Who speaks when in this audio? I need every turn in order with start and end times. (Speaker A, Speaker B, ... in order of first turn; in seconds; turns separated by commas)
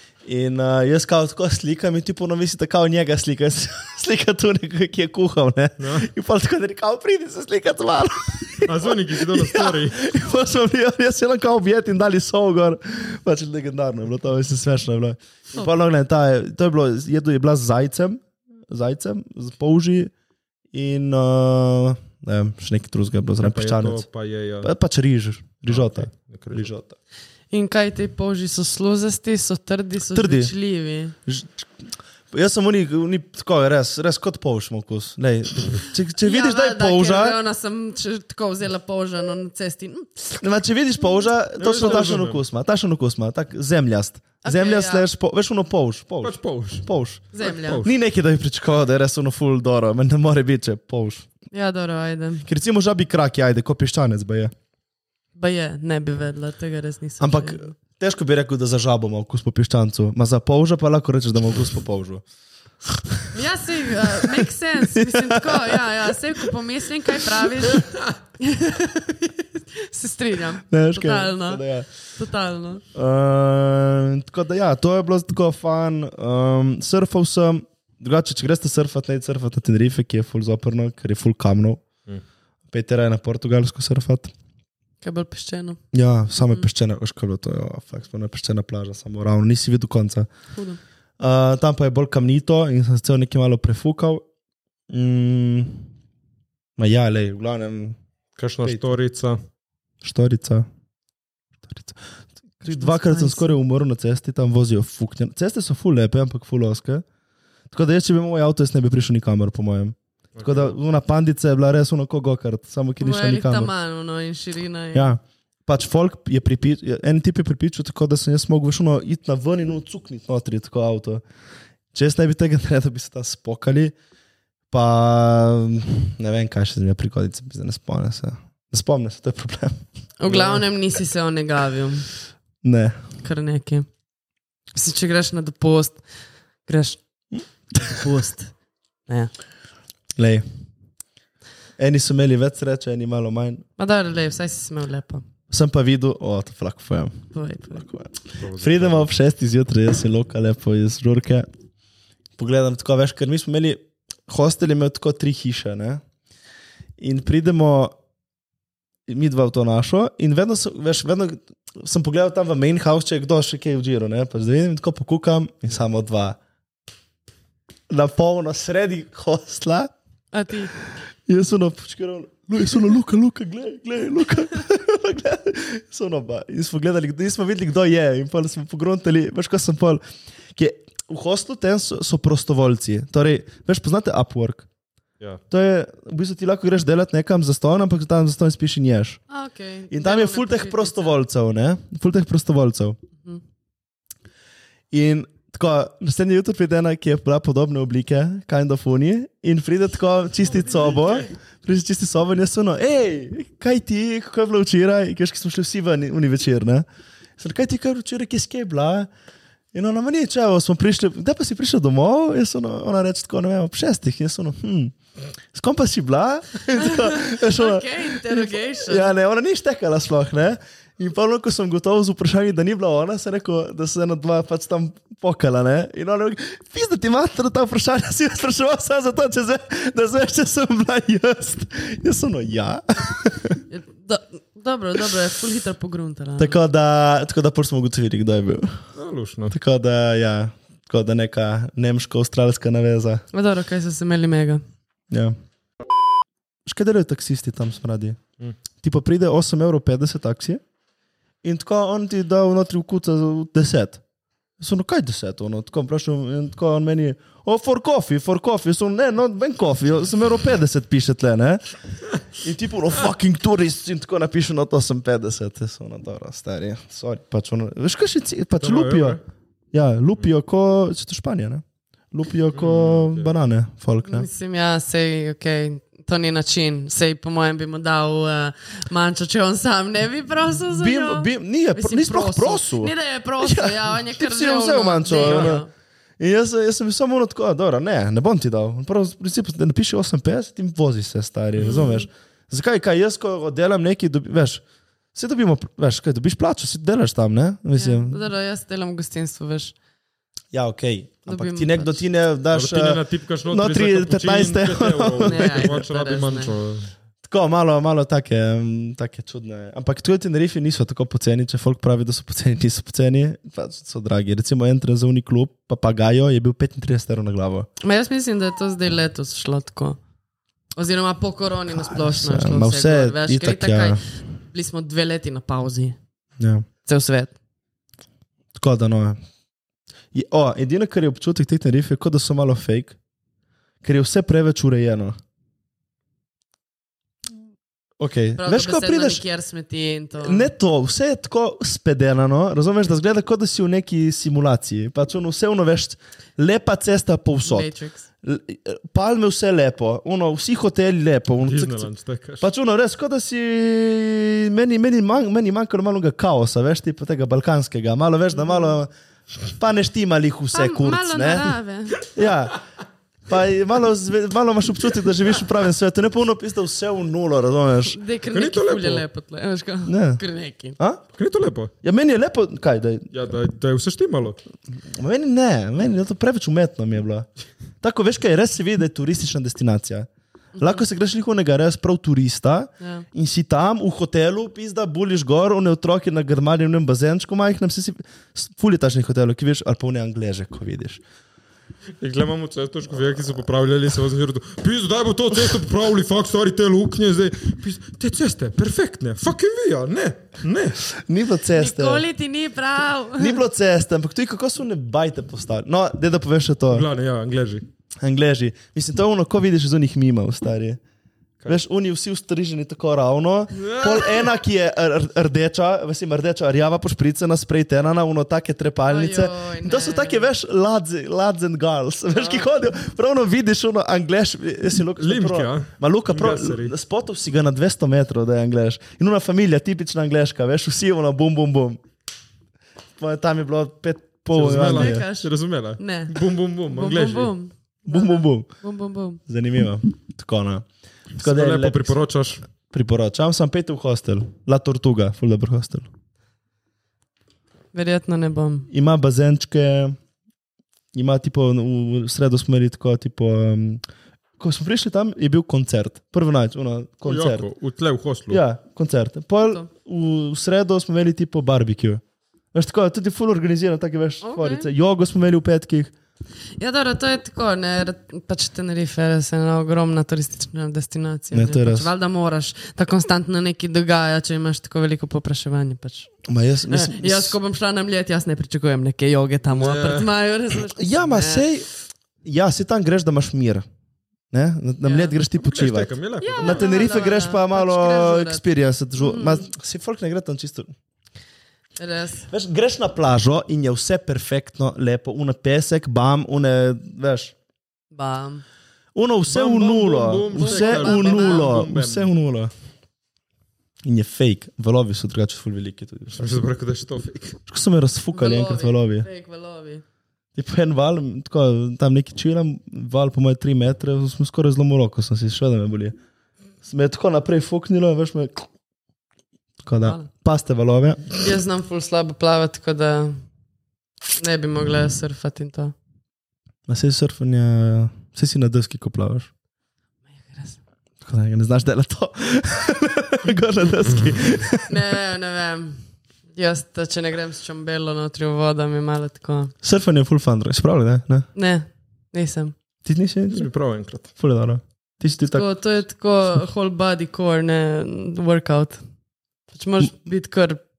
Speaker A: 0.3-20.1, Speaker B: 5.8-6.1, Speaker B: 8.6-10.0, Speaker A: 20.7-24.1, Speaker B: 23.4-24.7, Speaker A: 24.6-27.0, Speaker B: 25.7-26.7, Speaker C: 27.5-31.1, Speaker A: 30.1-30.5, Speaker A: 31.3-31.7, Speaker A: 32.3-37.4, Speaker C: 36.2-40.5, Speaker A: 40.4-51.3, Speaker B: 41.6-42.4, Speaker C: 44.4-45.1, Speaker B: 46.2-46.9, Speaker C: 47.3-47.8, Speaker B: 47.5-47.9, Speaker C: 51.5-52.5, Speaker A: 52.5-54.5, Speaker C: 55.4-57.7, Speaker A: 57.2-62.2, Speaker A: 62.9-63.3, Speaker C: 63.3-71.6, Speaker A: 64.1-66.2, Speaker A: 70.7-71.9, Speaker C: 72.2-72.8, Speaker A: 72.9-81.8, Speaker A: 82.7-84.3, Speaker C: 85.0-85.8, Speaker A: 85.9-90.3, Speaker A: 91.2-94.2, Speaker A: 94.9-95.9, Speaker A: 96.8-98.0, Speaker B: 98.4-99.4, Speaker A: 98.6-98.9, Speaker A: 100.0-100.7, Speaker A: 101.6-102.0, Speaker A: 102.6-107.0, Speaker C: 102.6-103.5, Speaker A: 107.7-113.7, Speaker B: 110.4-110.8, Speaker C: 113.0-115.1, Speaker A: 114.9-121.2, Speaker A: 121.9-123.9, Speaker A: 124.7-129.8, Speaker C: 130.2-132.1, Speaker B: 130.3-130.6, Speaker A: 132.6-133.0, Speaker C: 133.2-133.9, Speaker C: 134.7-136.0, Speaker C: 136.7-137.0, Speaker A: 137.4-138.1, Speaker C: 137.9-138.5, Speaker A: 140.2-140.5, Speaker A: 141.8-143.6, Speaker C: 143.8-145.2, Speaker A: 145.5-147.2, Speaker C: 147.3-147.8, Speaker A: 147.7-151.5, Speaker B: 148.4-149.1, Speaker A: 152.4-156.0, Speaker A: 157.0-157.9, Speaker A: 159.1-166.4, Speaker A: 167.9-169.9, Speaker C: 170.3-170.7, Speaker A: 171.3-180.0, Speaker A: 180.5-184.7, Speaker A: 185.5-189.2, Speaker C: 189.3-191.2, Speaker A: 189.9-193.0, Speaker A: 194.9-206.9, Speaker A: 207.4-209.1, Speaker A: 209.7-214.9, Speaker A: 215.5-233.6, Speaker C: 216.8-219.1, Speaker C: 233.7-236.6, Speaker A: 236.4-238.8, Speaker B: 239.0-239.5, Speaker A: 239.5-243.2, Speaker C: 243.3-244.6, Speaker A: 246.7-248.2, Speaker A: 248.8-250.6, Speaker A: 251.4-254.0, Speaker A: 254.6-261.7, Speaker A: 262.3-269.2, Speaker B: 268.6-269.2, Speaker A: 269.7-274.3, Speaker B: 272.5-273.3, Speaker C: 274.1-285.7, Speaker A: 280.7-285.7, Speaker B: 285.1-285.6, Speaker A: 286.2-294.6, Speaker C: 291.7-292.0, Speaker A: 295.1-298.2, Speaker C: 297.8-299.8, Speaker A: 300.5-305.8, Speaker C: 301.3-302.0, Speaker B: 302.5-306.9, Speaker C: 305.3-306.5, Speaker A: 307.2-317.7, Speaker C: 317.8-320.0, Speaker C: 320.8-324.0, Speaker A: 321.7-324.0, Speaker C: 324.5-326.0, Speaker A: 326.4-326.6, Speaker C: 326.9-327.3, Speaker A: 328.6-329.2, Speaker A: 330.1-333.0, Speaker A: 333.8-335.2, Speaker A: 338.0-339.2, Speaker C: 338.4-340.5, Speaker A: 340.2-347.7, Speaker C: 347.4-348.1, Speaker A: 348.2-351.9, Speaker B: 351.4-352.5, Speaker A: 352.4-358.9, Speaker A: 359.6-362.6, Speaker C: 360.5-362.0, Speaker A: 363.3-368.0, Speaker C: 367.8-370.8, Speaker B: 368.3-369.1, Speaker A: 369.9-370.2, Speaker A: 370.8-371.1, Speaker B: 371.2-371.7, Speaker A: 371.8-373.1, Speaker B: 373.1-374.4, Speaker A: 374.9-377.3, Speaker A: 377.8-380.1, Speaker A: 380.6-391.0, Speaker C: 382.8-383.1, Speaker B: 392.0-400.8, Speaker A: 401.0-402.1, Speaker C: 401.6-403.4, Speaker A: 403.2-406.9, Speaker B: 406.7-407.7, Speaker A: 408.0-410.8, Speaker A: 411.5-431.8, Speaker B: 413.6-414.3, Speaker C: 418.9-420.3, Speaker B: 425.0-426.7, Speaker A: 433.0-435.1, Speaker B: 434.3-437.3, Speaker C: 434.6-439.2, Speaker A: 437.9-438.5, Speaker A: 439.3-440.7, Speaker B: 441.2-442.4, Speaker A: 441.2-442.0, Speaker A: 442.7-445.9, Speaker C: 447.7-448.7, Speaker A: 448.7-450.0, Speaker A: 450.9-453.8, Speaker A: 454.4-457.5, Speaker B: 457.1-458.4, Speaker A: 458.3-462.0, Speaker C: 459.4-459.7, Speaker A: 462.5-465.9, Speaker C: 464.2-464.7, Speaker C: 466.6-476.1, Speaker A: 471.3-471.9, Speaker A: 476.3-477.4, Speaker C: 476.7-481.5, Speaker B: 479.5-480.1, Speaker A: 480.8-481.7, Speaker A: 482.2-483.7, Speaker A: 484.3-490.7, Speaker C: 484.8-485.1, Speaker B: 485.4-486.7, Speaker C: 486.2-488.4, Speaker C: 489.0-489.5, Speaker C: 491.8-492.2, Speaker A: 492.3-497.3, Speaker C: 497.9-498.4, Speaker A: 498.9-502.5, Speaker B: 499.3-502.1, Speaker C: 500.4-501.5, Speaker A: 503.8-506.2, Speaker B: 506.1-507.4, Speaker A: 507.5-509.1, Speaker C: 508.1-509.8, Speaker A: 510.4-516.0, Speaker A: 516.6-518.5, Speaker A: 519.6-521.0, Speaker C: 519.8-520.1, Speaker C: 521.2-523.2, Speaker C: 524.2-525.7, Speaker A: 526.7-529.3, Speaker C: 530.3-530.6, Speaker A: 531.0-535.0, Speaker B: 533.9-534.2, Speaker C: 534.7-535.8, Speaker C: 536.4-539.5, Speaker A: 539.6-541.3, Speaker C: 541.4-542.5, Speaker A: 542.9-543.5, Speaker B: 543.3-544.1, Speaker A: 544.2-545.5, Speaker C: 545.3-548.8, Speaker C: 549.5-550.6